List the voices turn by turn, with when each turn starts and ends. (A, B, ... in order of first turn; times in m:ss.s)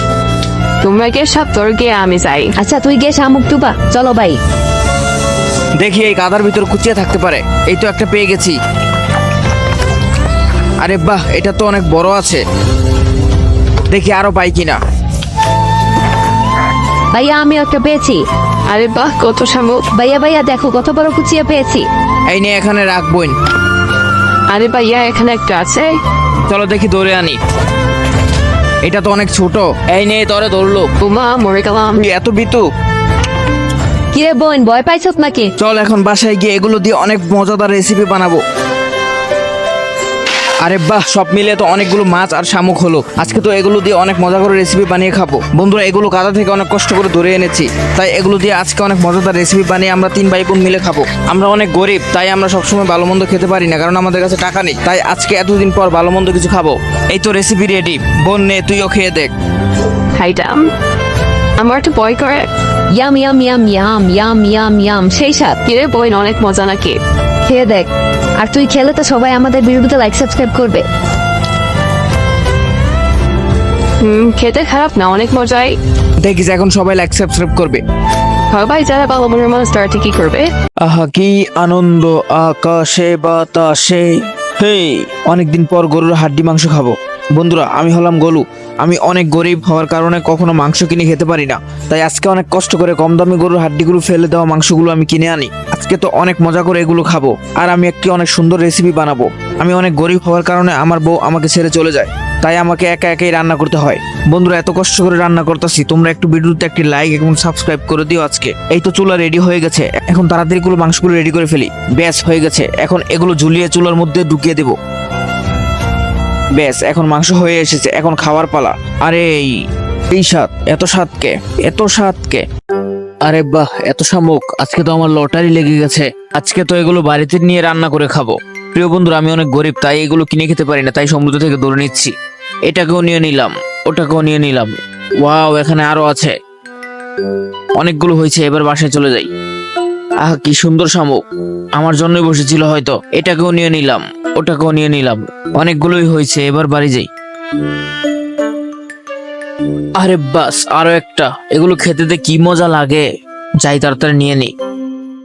0:00.8-0:02.5 A
0:02.6-0:04.4 B
0:05.8-0:08.6 C
0:10.8-0:12.4 C
0:13.9-0:14.8 C
0:17.1-0:18.2 B
0:18.7-0:19.9 A
0:19.9-0:21.8 B
0:22.3-0:23.3 C
0:24.5-0:26.0 A
0:26.5-0:27.4 C
0:28.8-0:30.9 C
0:31.0-0:32.0 A
0:32.0-0:32.6 C
0:34.1-0:35.5 B
0:35.6-0:38.4 C
0:40.6-0:59.3 C
1:00.2-1:00.7 A
1:01.6-1:02.5 A
1:03.0-1:05.6 B
1:05.6-1:07.0 A
1:07.4-1:10.8 B
1:14.0-1:15.8 A
1:16.2-1:17.8 C
1:18.5-1:20.5 A
1:20.8-1:54.8 C
1:56.5-1:59.6 C
2:00.1-2:02.4 C
2:03.2-2:12.1 C
2:12.7-2:16.3 C
2:17.8-2:19.3 C
2:20.2-2:21.2 C
2:21.8-2:27.1 C
2:29.9-2:33.0 C
2:33.6-2:34.5 C